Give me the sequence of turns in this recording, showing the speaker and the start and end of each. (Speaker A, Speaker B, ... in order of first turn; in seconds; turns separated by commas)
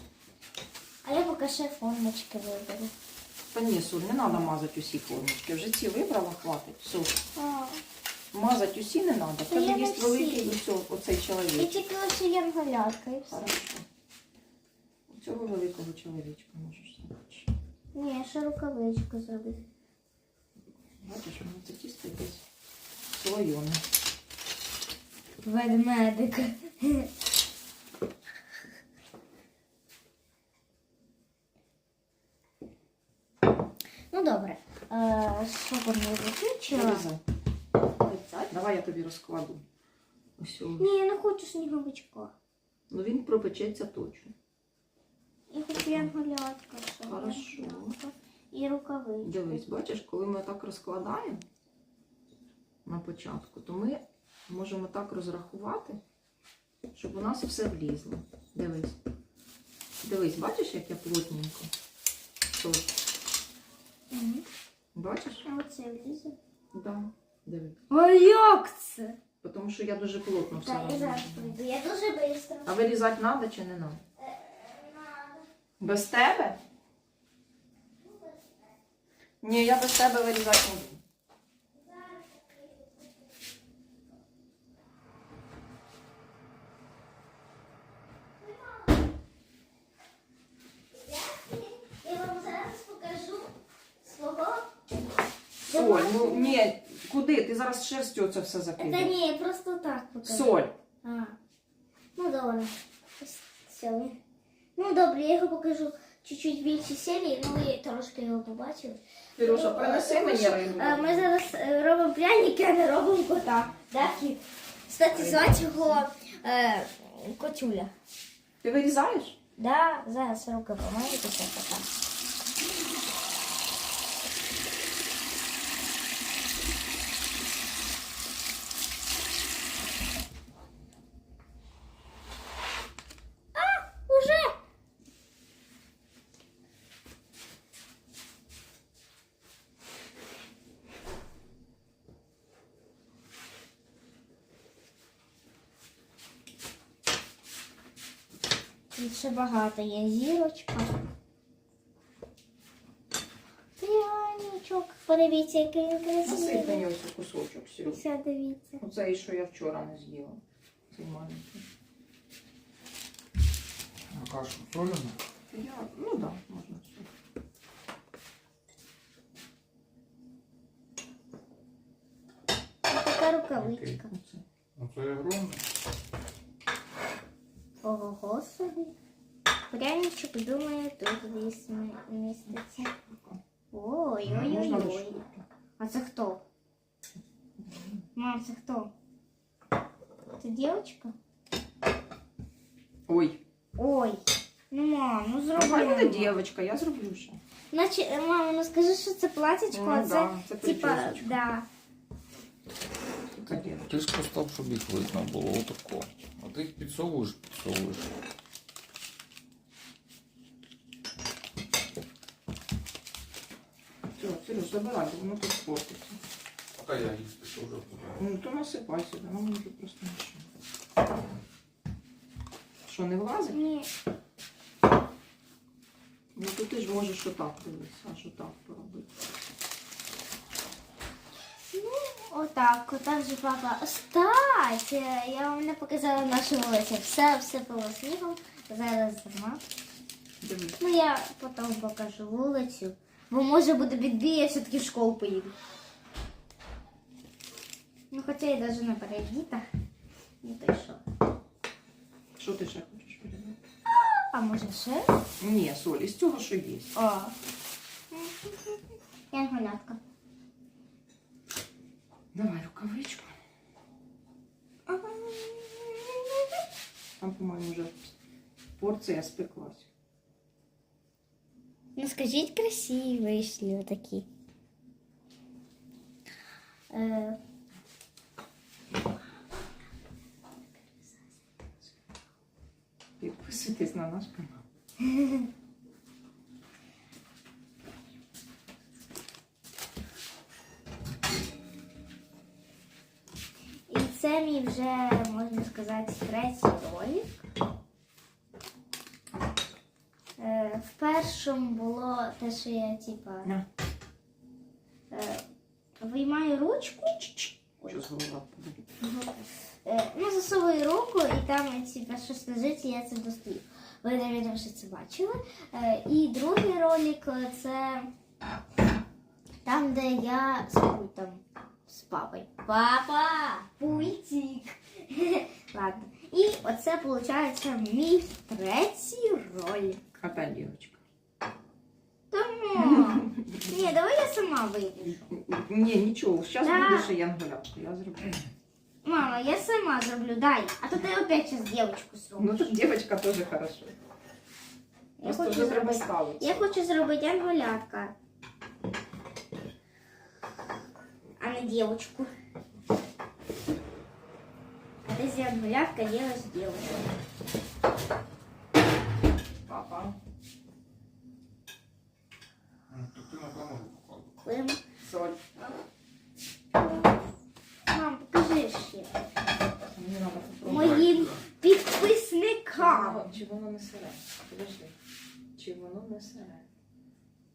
Speaker A: 1.0-2.9, Speaker B: 3.5-7.2, Speaker A: 7.3-7.8, Speaker B: 8.3-11.8, Speaker A: 9.4-10.6, Speaker A: 11.6-13.5, Speaker B: 13.3-13.8, Speaker B: 15.1-17.5, Speaker A: 17.9-19.6, Speaker B: 21.0-22.4, Speaker B: 23.1-23.8, Speaker A: 25.4-27.1, Speaker A: 34.1-37.0, Speaker B: 36.7-37.2, Speaker A: 38.0-38.5, Speaker B: 38.5-39.6, Speaker B: 40.4-40.9, Speaker A: 40.8-42.3, Speaker B: 42.9-44.3, Speaker A: 45.5-49.6, Speaker B: 45.8-46.1, Speaker B: 47.0-48.0, Speaker B: 49.2-51.4, Speaker B: 52.8-56.0, Speaker B: 56.9-59.0, Speaker B: 60.0-61.7, Speaker B: 62.5-63.0, Speaker A: 64.1-64.4, Speaker B: 64.9-65.4, Speaker A: 65.4-66.3, Speaker B: 66.7-67.8, Speaker A: 67.9-69.2, Speaker B: 69.4-71.5, Speaker A: 70.5-72.8, Speaker B: 72.6-74.0, Speaker A: 74.2-75.5, Speaker B: 75.8-76.6, Speaker A: 78.0-78.8, Speaker B: 79.4-81.0, Speaker A: 81.7-83.3, Speaker A: 88.4-89.0, Speaker A: 90.9-94.7, Speaker A: 95.7-96.6, Speaker B: 95.7-99.1, Speaker A: 98.8-101.4, Speaker B: 100.2-100.7, Speaker A: 102.2-104.2, Speaker A: 104.8-117.9, Speaker B: 109.4-111.3, Speaker B: 115.1-116.0, Speaker B: 118.6-119.4, Speaker A: 119.6-121.9, Speaker A: 133.5-134.6, Speaker A: 148.9-151.0, Speaker A: 153.8-156.8, Speaker B: 156.2-158.0, Speaker A: 157.8-158.8, Speaker B: 158.8-161.6, Speaker C: 164.1-165.2, Speaker B: 165.5-167.1, Speaker A: 172.9-174.1, Speaker C: 173.6-174.0, Speaker B: 174.1-174.4, Speaker C: 174.8-175.6, Speaker A: 177.8-178.9, Speaker A: 179.7-182.9, Speaker B: 183.1-183.4, Speaker A: 183.7-185.2, Speaker B: 184.3-185.4, Speaker A: 185.8-186.4, Speaker B: 187.6-188.0, Speaker A: 188.1-188.9, Speaker A: 190.4-191.1, Speaker B: 193.1-193.4, Speaker A: 193.8-196.4, Speaker B: 195.5-197.4, Speaker A: 197.7-201.7, Speaker B: 199.7-201.4, Speaker B: 203.3-203.9, Speaker C: 203.5-208.1, Speaker B: 214.2-216.2, Speaker C: 216.7-218.2, Speaker B: 218.2-220.5, Speaker B: 222.8-223.6, Speaker A: 223.5-223.9, Speaker B: 226.3-229.1, Speaker A: 231.7-239.6, Speaker B: 240.4-240.8, Speaker A: 240.8-245.5, Speaker A: 248.1-249.6, Speaker A: 250.4-251.0, Speaker B: 252.3-253.6, Speaker A: 253.9-255.2, Speaker B: 255.4-256.9, Speaker A: 256.9-257.3, Speaker A: 258.1-258.8, Speaker A: 259.3-260.0, Speaker B: 262.3-263.4, Speaker A: 264.9-266.5, Speaker B: 267.2-268.1, Speaker B: 268.8-269.9, Speaker A: 271.9-274.3, Speaker A: 276.9-277.4, Speaker B: 283.2-284.6, Speaker A: 285.0-285.5, Speaker A: 293.9-297.4, Speaker A: 300.4-303.5, Speaker A: 305.1-305.4, Speaker A: 306.0-308.0, Speaker B: 307.9-308.9, Speaker A: 309.0-318.1, Speaker A: 319.6-330.0, Speaker C: 323.9-324.1, Speaker B: 330.2-331.0, Speaker A: 332.3-335.3, Speaker B: 332.8-333.7, Speaker B: 335.1-338.4, Speaker A: 336.6-337.1, Speaker A: 339.0-342.7, Speaker B: 342.4-343.9, Speaker A: 345.2-348.1, Speaker B: 345.2-346.8, Speaker A: 351.4-352.3, Speaker A: 355.0-357.1, Speaker B: 359.6-360.2, Speaker C: 362.9-364.4, Speaker A: 364.4-364.8, Speaker B: 365.0-365.4, Speaker A: 366.7-367.2, Speaker A: 367.9-369.3, Speaker B: 369.9-371.0, Speaker A: 370.6-373.3, Speaker C: 370.7-371.4, Speaker B: 372.7-374.9, Speaker B: 375.6-376.7